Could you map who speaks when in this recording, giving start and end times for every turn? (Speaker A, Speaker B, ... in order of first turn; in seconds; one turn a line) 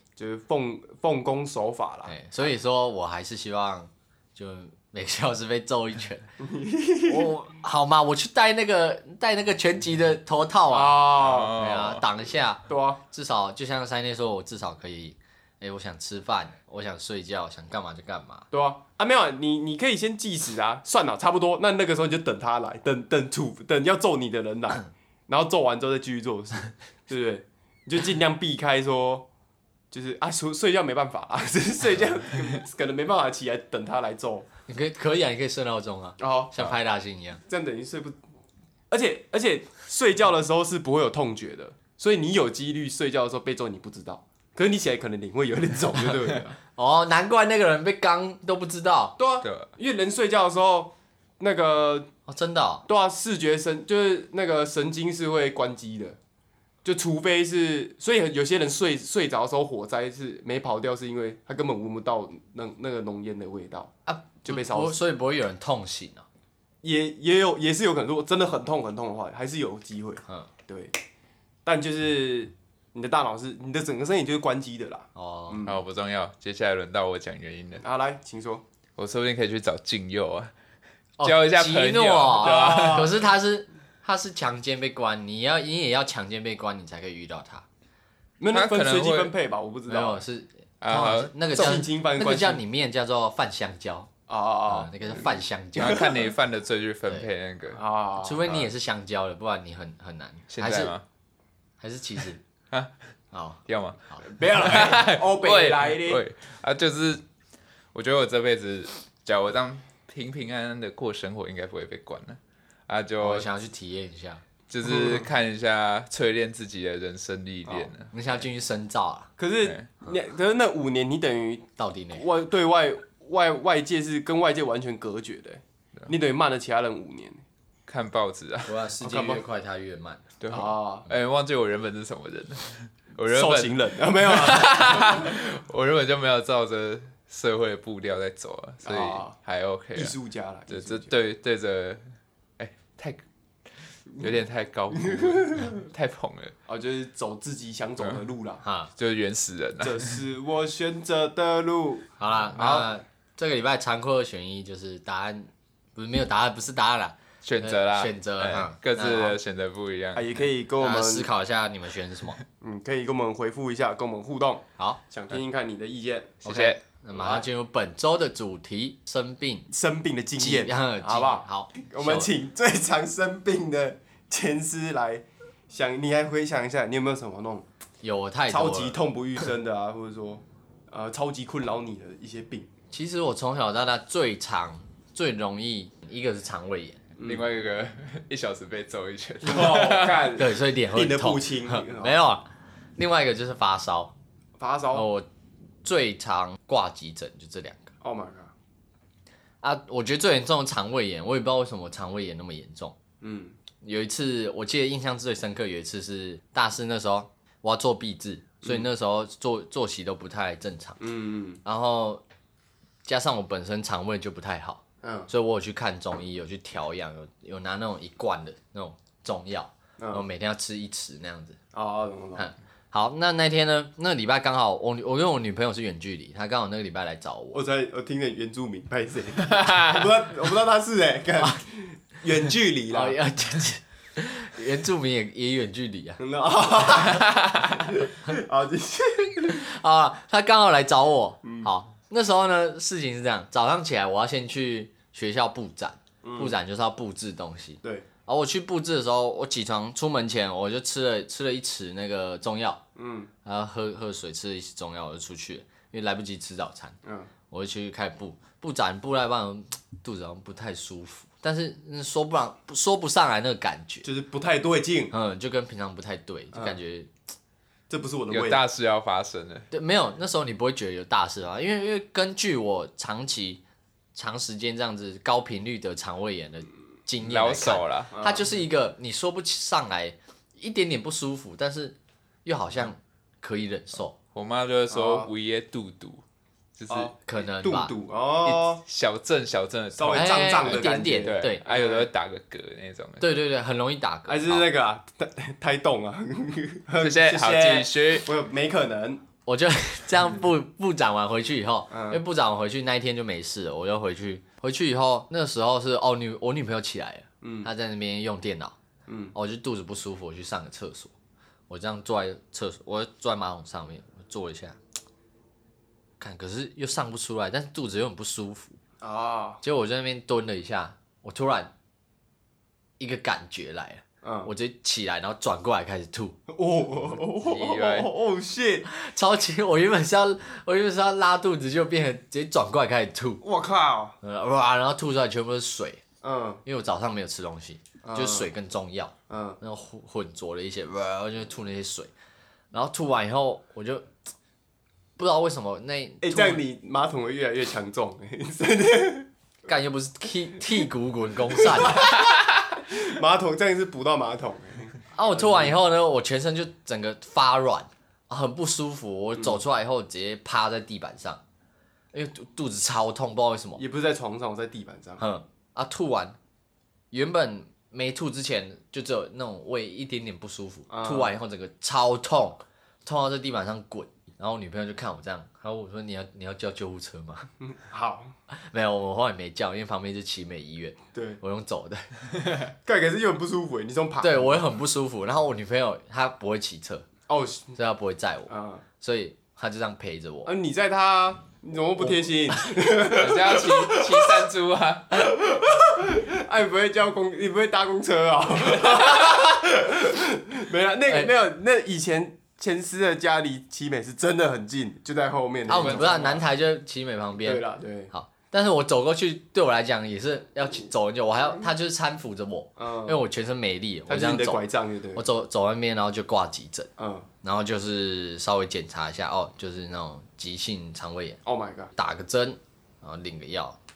Speaker A: 0.1-2.1
Speaker B: 2.1-6.3
Speaker A: 6.4-7.3
Speaker B: 7.0-18.4
Speaker A: 10.7-11.6
Speaker C: 11.2-12.1
Speaker A: 12.7-13.0
Speaker A: 18.5-29.3
Speaker A: 29.9-34.5
Speaker B: 34.7-37.4
Speaker A: 36.2-36.5
Speaker A: 37.5-38.2
Speaker A: 38.9-46.6
Speaker B: 46.8-49.2
Speaker A: 49.2-52.1
Speaker C: 49.4-49.7
Speaker B: 52.3-52.9
Speaker A: 52.9-56.2
Speaker A: 56.8-65.0
Speaker B: 64.0-66.2
Speaker A: 66.8-70.9
Speaker B: 70.2-70.5
Speaker A: 71.6-75.8
Speaker B: 75.1-75.7
Speaker C: 75.6-77.8
Speaker A: 77.8-78.6
Speaker C: 79.0-80.5
Speaker B: 81.2-87.6
Speaker C: 81.2-83.1
Speaker A: 82.4-83.2
Speaker A: 88.4-90.2
Speaker C: 88.5-89.3
Speaker B: 89.9-94.1
Speaker C: 90.8-91.3
Speaker A: 91.5-92.6
Speaker A: 94.3-94.9
Speaker B: 94.7-96.2
Speaker C: 95.8-97.8
Speaker A: 95.8-96.2
Speaker A: 97.7-98.7
Speaker B: 98.2-100.9
Speaker C: 100.5-101.0
Speaker B: 101.8-102.4
Speaker B: 103.3-104.2
Speaker C: 103.7-107.2
Speaker A: 104.2-106.2
Speaker C: 107.9-113.5
Speaker B: 113.2-114.4
Speaker C: 114.7-118.1
Speaker A: 114.8-115.3
Speaker B: 118.1-119.3
Speaker A: 119.4-127.4
Speaker C: 119.6-119.9
Speaker B: 121.8-122.2
Speaker C: 127.9-128.8
Speaker B: 128.7-130.2
Speaker A: 129.0-129.4
Speaker C: 130.4-140.2
Speaker A: 130.5-131.1
Speaker A: 133.3-135.3
Speaker A: 138.8-139.3
Speaker A: 139.9-141.1
Speaker C: 140.7-142.0
Speaker C: 142.6-143.2
Speaker C: 144.1-146.5
Speaker A: 144.9-145.8
Speaker A: 146.7-148.6
Speaker B: 148.6-148.9
Speaker C: 149.0-150.2
Speaker A: 149.8-152.9
Speaker B: 152.2-159.4
Speaker C: 157.4-160.4
Speaker A: 160.1-161.3
Speaker B: 160.8-162.4
Speaker A: 162.6-166.4
Speaker C: 166.4-166.8
Speaker B: 166.4-169.7
Speaker A: 167.1-167.4
Speaker A: 169.7-177.7
Speaker B: 170.4-172.3
Speaker B: 178.0-179.0
Speaker A: 178.5-182.7
Speaker B: 182.9-187.0
Speaker A: 187.2-187.4
Speaker C: 187.2-190.3
Speaker A: 189.4-192.2
Speaker B: 190.3-192.4
Speaker B: 193.0-194.1
Speaker A: 194.6-195.1
Speaker B: 194.9-195.3
Speaker B: 195.8-197.9
Speaker A: 198.0-198.5
Speaker B: 199.6-202.9
Speaker A: 203.2-203.6
Speaker B: 203.8-211.0
Speaker A: 211.0-211.6
Speaker B: 211.6-212.2
Speaker B: 213.0-221.6
Speaker A: 215.0-215.3
Speaker A: 220.0-220.2
Speaker A: 221.7-222.5
Speaker B: 222.4-227.6
Speaker A: 227.5-233.2
Speaker C: 229.4-230.1
Speaker B: 232.9-236.2
Speaker A: 236.2-239.6
Speaker C: 237.0-237.8
Speaker B: 239.5-252.8
Speaker A: 241.4-241.7
Speaker A: 246.2-246.5
Speaker A: 252.9-253.3
Speaker B: 253.4-257.0
Speaker A: 257.0-257.3
Speaker B: 257.5-264.1
Speaker A: 264.0-265.1
Speaker B: 265.1-267.1
Speaker A: 266.5-266.8
Speaker A: 267.9-268.6
Speaker C: 268.3-269.7
Speaker B: 269.7-273.6
Speaker B: 274.1-284.1
Speaker C: 277.2-278.1
Speaker A: 278.1-278.5
Speaker C: 284.3-286.2
Speaker A: 284.9-285.3
Speaker C: 286.8-287.1
Speaker A: 286.9-288.8
Speaker B: 287.2-287.9
Speaker C: 288.4-293.2
Speaker A: 289.9-292.1
Speaker B: 290.1-291.7
Speaker B: 293.2-294.6
Speaker A: 294.3-299.2
Speaker C: 297.0-298.3
Speaker B: 299.4-308.8
Speaker A: 301.9-302.2
Speaker A: 307.4-307.7
Speaker A: 309.1-309.3
Speaker B: 309.3-311.1
Speaker B: 311.7-314.8
Speaker B: 316.2-318.8
Speaker A: 319.0-319.6
Speaker B: 319.6-321.7
Speaker B: 323.0-326.4
Speaker A: 324.2-324.5
Speaker A: 326.5-328.9
Speaker C: 327.4-328.1
Speaker B: 328.9-333.4
Speaker A: 333.4-334.2
Speaker B: 334.2-336.0
Speaker A: 336.2-336.6
Speaker B: 336.6-342.1
Speaker A: 338.0-338.5
Speaker A: 339.3-339.6
Speaker B: 342.7-344.1
Speaker B: 345.2-346.6
Speaker A: 346.2-349.3
Speaker B: 349.7-352.1
Speaker A: 351.5-352.3
Speaker A: 352.9-355.8
Speaker B: 355.1-361.4
Speaker B: 362.1-363.8
Speaker A: 363.8-365.2
Speaker B: 365.2-366.4
Speaker B: 367.1-377.5
Speaker A: 370.9-371.3
Speaker A: 377.6-378.3
Speaker B: 378.5-382.1
Speaker A: 381.1-381.4
Speaker A: 382.8-384.6
Speaker B: 384.2-387.1
Speaker A: 387.3-387.8
Speaker B: 387.7-390.5
Speaker A: 388.5-388.8
Speaker A: 390.4-394.5
Speaker C: 393.1-395.3
Speaker A: 395.1-406.4
Speaker C: 398.8-399.2
Speaker B: 405.7-416.9
Speaker A: 407.4-408.1
Speaker A: 412.8-413.2
Speaker A: 414.1-415.2
Speaker A: 417.0-417.3
Speaker B: 417.4-421.4
Speaker A: 421.4-421.9
Speaker B: 421.9-423.8